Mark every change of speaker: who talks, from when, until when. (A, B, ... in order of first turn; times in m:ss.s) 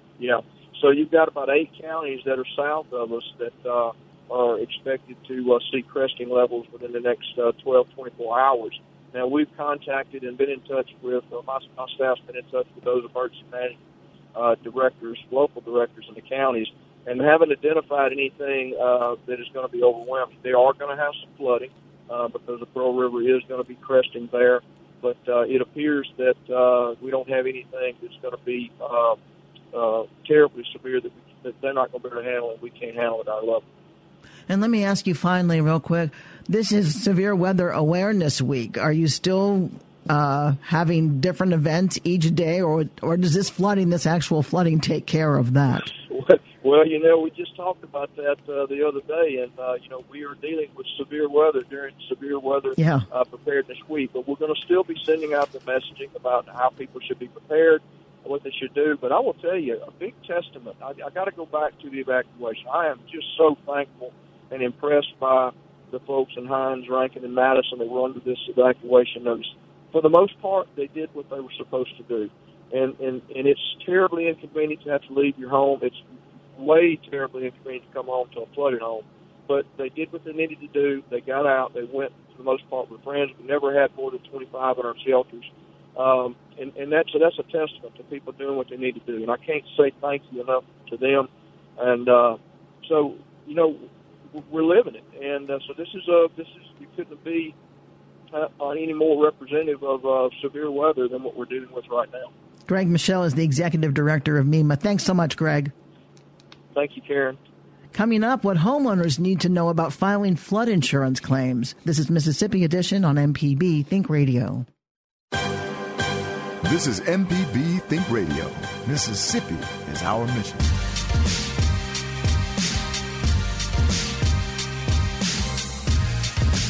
0:00.2-0:13.8 A
0:14.3-0:29.2 A
0:29.7-0:33.6 A
0:34.5-0:45.9 B
0:45.8-1:16.0 A
0:52.8-0:53.0 B
1:16.6-1:37.5 A
1:38.3-1:42.3 A
1:42.7-1:45.7 B
1:46.7-1:47.4 A
1:47.9-1:54.6 B
1:56.6-2:00.7 C